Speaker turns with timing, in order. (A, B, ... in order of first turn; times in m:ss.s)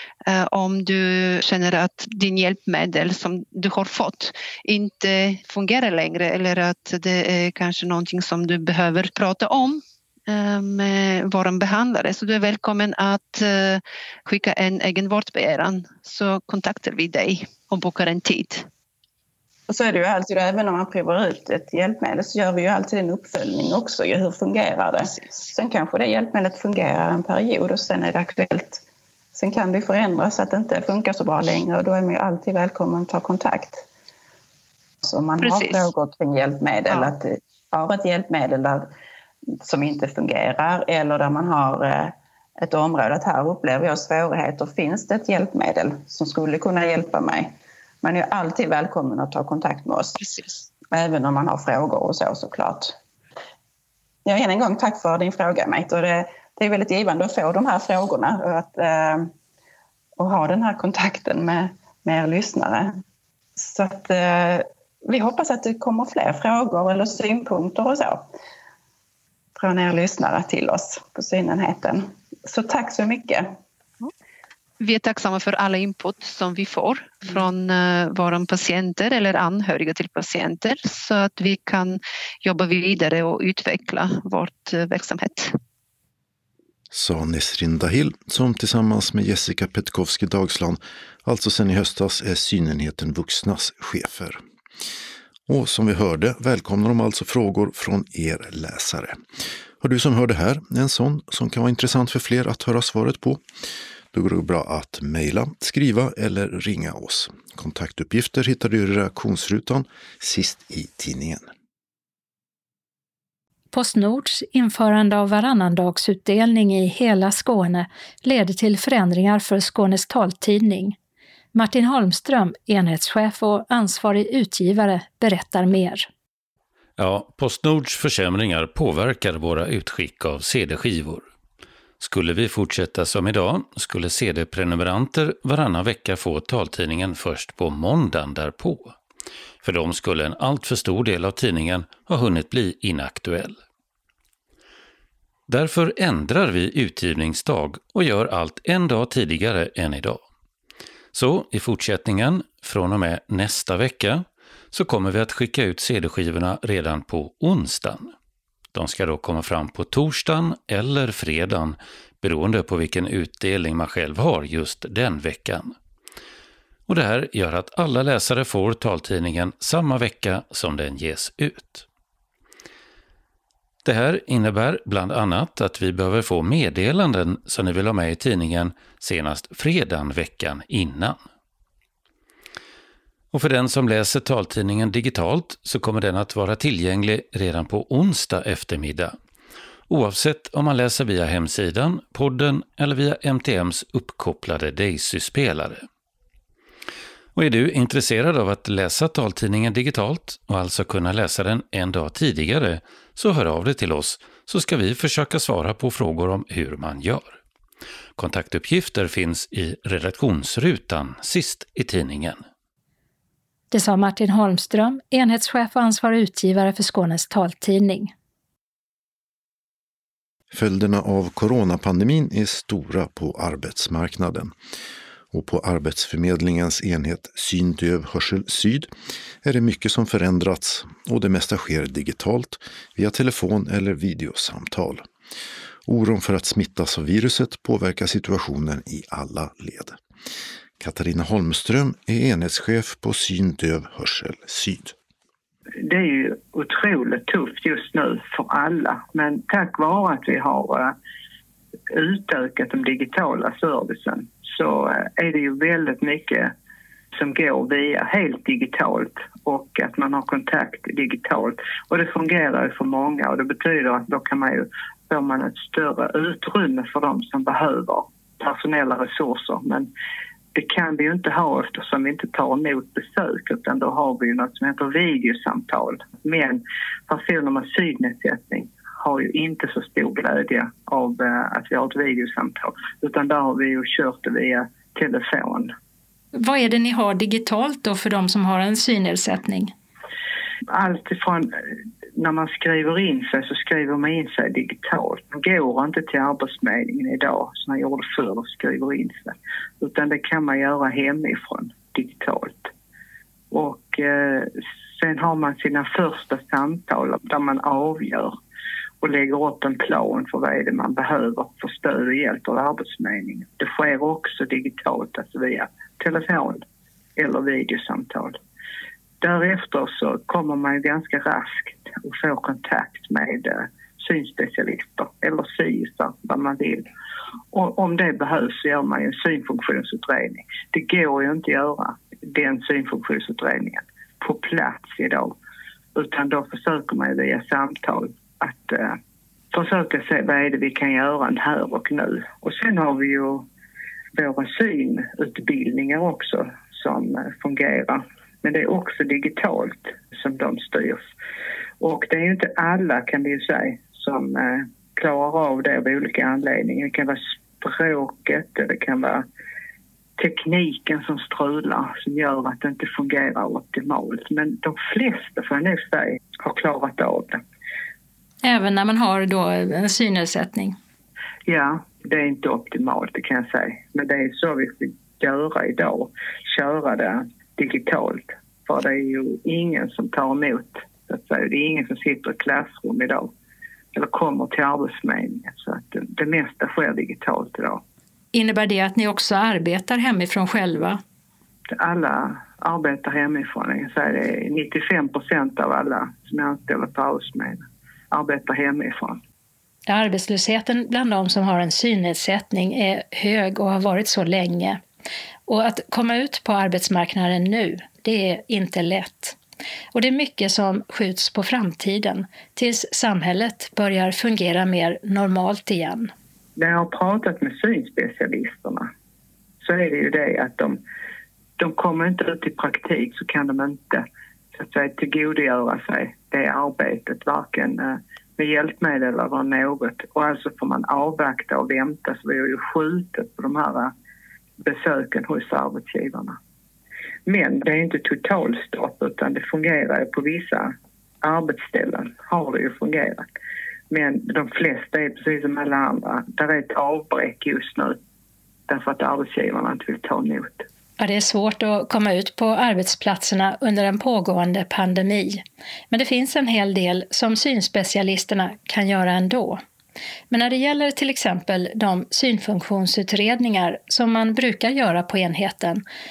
0:00.3-0:18.7 A
0:19.7-0:28.8 B
0:29.3-0:33.8 B
0:35.0-0:38.9 B
0:35.4-0:35.9 A
0:39.6-0:50.2 B
0:50.2-0:50.5 A
0:50.9-0:52.9 B
0:54.2-0:59.3 B
1:00.2-1:03.0 B
1:03.6-1:08.2 B
1:09.6-1:13.5 B
1:14.8-1:25.5 A
1:26.9-1:34.4 C
1:35.5-1:39.2 C
1:39.8-1:43.4 C
1:44.1-1:51.5 C
1:53.7-2:01.0 D
2:01.5-2:06.1 D
2:07.0-2:11.3 E
2:12.0-2:19.0 E
2:19.6-2:23.6 E
2:25.5-2:30.2 E
2:31.1-2:38.1 E
2:38.7-2:45.7 E
2:46.9-2:51.8 E
2:53.8-3:01.2 E
3:03.3-3:09.2 E
3:09.9-3:15.9 E
3:17.3-3:27.4 E
3:28.2-3:32.4 E
3:33.7-3:38.1 D
3:40.5-3:44.5 C
3:45.3-3:48.9 C
3:49.4-3:55.1 C
3:55.8-4:00.0 C
4:00.8-4:04.9 C
4:05.8-4:10.9 F
4:11.9-4:16.5 F
4:17.1-4:29.9 F
4:30.5-4:45.7 F
4:46.3-4:49.7 D
4:50.7-4:51.6 F
4:52.2-5:02.7 F
5:03.5-5:08.4 F
5:09.0-5:16.6 F
5:17.2-5:18.4 F
5:19.2-5:26.9 F
5:27.5-5:35.4 F
5:35.9-5:39.0 F
5:39.5-5:43.5 F
5:44.1-5:51.1 F
5:51.8-5:59.2 F
6:00.2-6:07.4 F
6:08.4-6:10.8 D
6:11.4-6:23.3 F
6:23.9-6:27.8 F
6:28.3-6:31.0 D
6:31.7-6:39.2 F
6:39.9-6:44.8 D
6:45.5-6:49.4 D
6:49.9-6:56.1 D
6:56.6-6:58.9 F
6:59.6-7:00.8 F
7:01.6-7:13.9 F
7:14.6-7:16.4 F
7:17.2-7:23.3 F
7:23.9-7:28.0 F
7:28.7-7:30.6 F
7:31.0-7:39.6 D
7:40.3-7:45.8 D